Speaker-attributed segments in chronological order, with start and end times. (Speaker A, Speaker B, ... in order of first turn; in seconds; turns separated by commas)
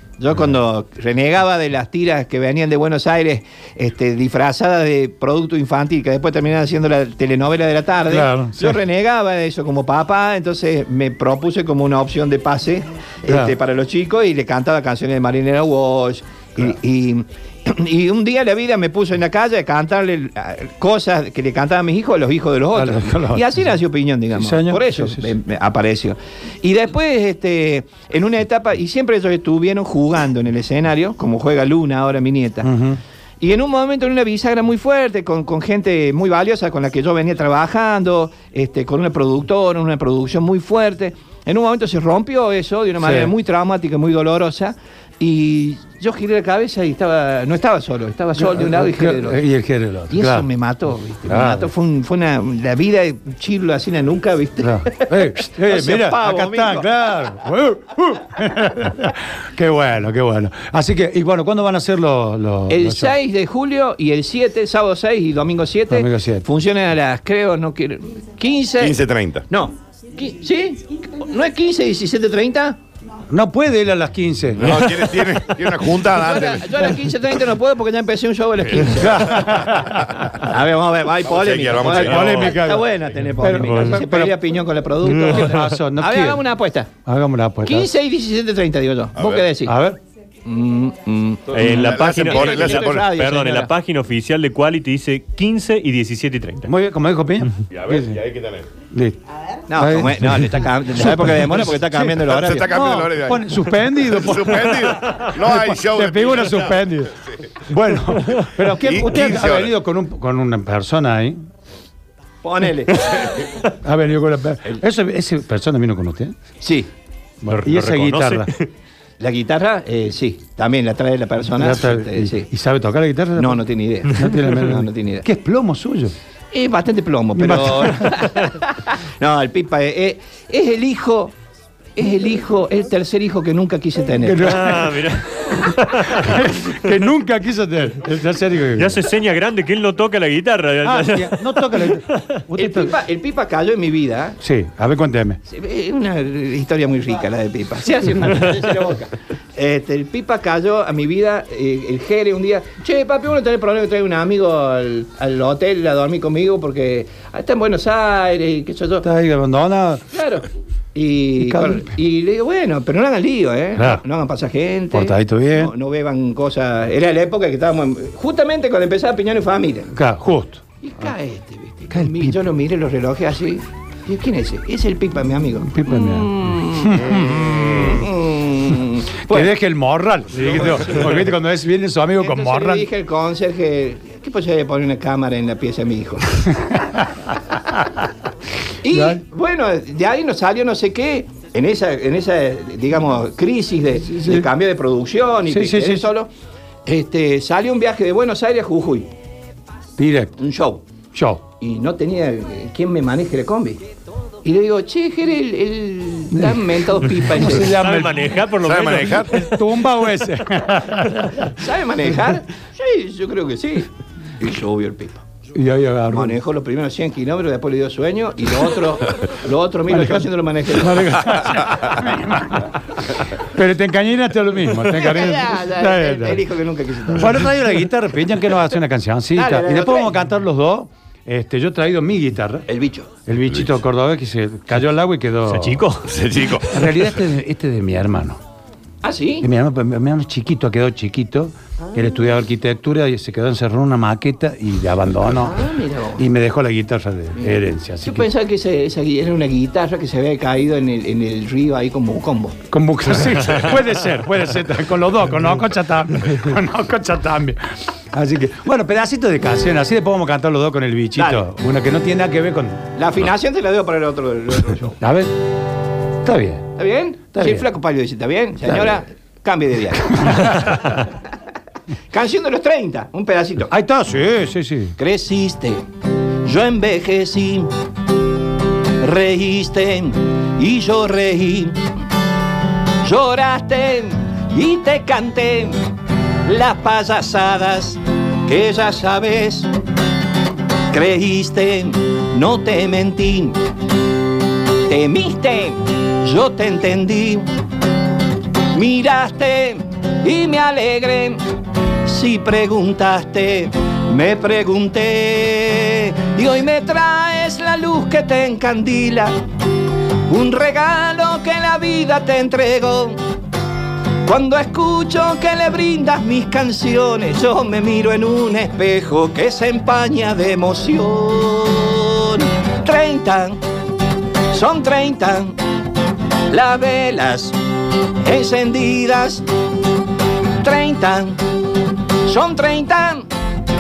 Speaker A: 0.2-32.7, Speaker B: 8.1-8.8, Speaker B: 22.7-23.5, Speaker B: 24.4-25.3, Speaker B: 32.6-33.0, Speaker A: 33.4-49.4, Speaker B: 43.0-43.3, Speaker B: 48.4-50.5, Speaker A: 50.1-56.9, Speaker B: 51.3-51.7, Speaker B: 54.6-63.1, Speaker A: 62.7-72.8, Speaker B: 65.9-66.5, Speaker C: 68.8-69.5, Speaker B: 73.3-74.9, Speaker C: 74.6-76.9, Speaker A: 76.1-79.8, Speaker B: 78.9-80.4, Speaker A: 80.3-86.9, Speaker C: 81.2-82.6, Speaker B: 81.8-82.8, Speaker B: 83.4-84.4, Speaker B: 85.0-86.4, Speaker B: 87.1-87.9, Speaker A: 87.7-89.8, Speaker C: 89.2-89.5, Speaker B: 89.6-90.0, Speaker A: 90.5-93.7, Speaker D: 91.5-96.7, Speaker C: 91.6-93.0, Speaker B: 96.7-98.2, Speaker C: 97.7-98.7, Speaker B: 98.9-99.2, Speaker A: 99.7-102.7, Speaker B: 99.8-111.4, Speaker C: 102.2-106.8, Speaker C: 108.7-109.7, Speaker A: 112.4-113.3, Speaker B: 113.7-116.3, Speaker A: 116.6-116.9, Speaker B: 117.4-118.5, Speaker D: 117.5-118.7, Speaker A: 119.2-122.5, Speaker B: 121.6-126.1, Speaker A: 123.4-125.3, Speaker A: 126.5-131.3, Speaker B: 127.3-128.5, Speaker A: 132.0-134.6, Speaker B: 134.2-139.0, Speaker D: 134.5-136.8, Speaker D: 138.8-142.4, Speaker B: 140.8-143.0, Speaker A: 142.6-144.4, Speaker B: 144.4-145.4, Speaker A: 145.4-159.1, Speaker B: 159.0-160.0, Speaker A: 160.1-169.9, Speaker B: 161.4-161.9, Speaker B: 163.8-164.0, Speaker B: 164.9-165.7, Speaker B: 169.9-170.6, Speaker A: 170.8-179.5, Speaker B: 171.9-172.4, Speaker B: 175.7-178.1, Speaker B: 179.3-182.9, Speaker A: 180.3-181.3, Speaker A: 182.2-186.4, Speaker A: 188.8-196.3, Speaker B: 188.9-189.2, Speaker B: 194.1-194.5, Speaker B: 195.5-196.1, Speaker A: 196.9-199.1, Speaker B: 200.0-200.4, Speaker A: 200.4-200.8, Speaker B: 201.1-201.4, Speaker A: 201.6-203.8, Speaker A: 204.4-207.8, Speaker B: 206.3-208.4, Speaker D: 207.4-209.3, Speaker C: 208.6-209.3, Speaker B: 209.1-211.6, Speaker A: 211.5-215.2, Speaker B: 215.6-216.4, Speaker A: 216.1-221.2, Speaker B: 219.9-226.4, Speaker A: 224.9-227.3, Speaker B: 227.1-232.7, Speaker A: 229.3-230.1, Speaker A: 232.7-233.1, Speaker B: 233.3-235.9, Speaker D: 235.5-236.2, Speaker C: 236.1-236.9, Speaker B: 236.6-238.4, Speaker A: 239.0-239.5, Speaker B: 239.4-248.3, Speaker A: 245.4-246.2, Speaker A: 247.3-252.6, Speaker B: 252.7-262.9, Speaker A: 261.2-261.5, Speaker A: 263.0-265.0, Speaker B: 265.0-265.3, Speaker B: 266.2-266.7, Speaker A: 266.8-270.5, Speaker B: 267.3-267.7, Speaker B: 270.2-270.7, Speaker A: 272.1-273.7, Speaker B: 273.7-274.9, Speaker A: 275.0-275.8, Speaker A: 276.4-277.7, Speaker A: 278.9-281.8, Speaker A: 283.0-285.8, Speaker A: 286.4-289.7, Speaker A: 290.9-293.6, Speaker A: 294.7-297.5, Speaker A: 298.7-301.4, Speaker A: 302.0-309.3, Speaker A: 310.3-313.2, Speaker A: 314.2-323.6, Speaker A: 324.5-325.6, Speaker A: 326.5-327.6, Speaker A: 328.2-329.5, Speaker A: 330.6-333.3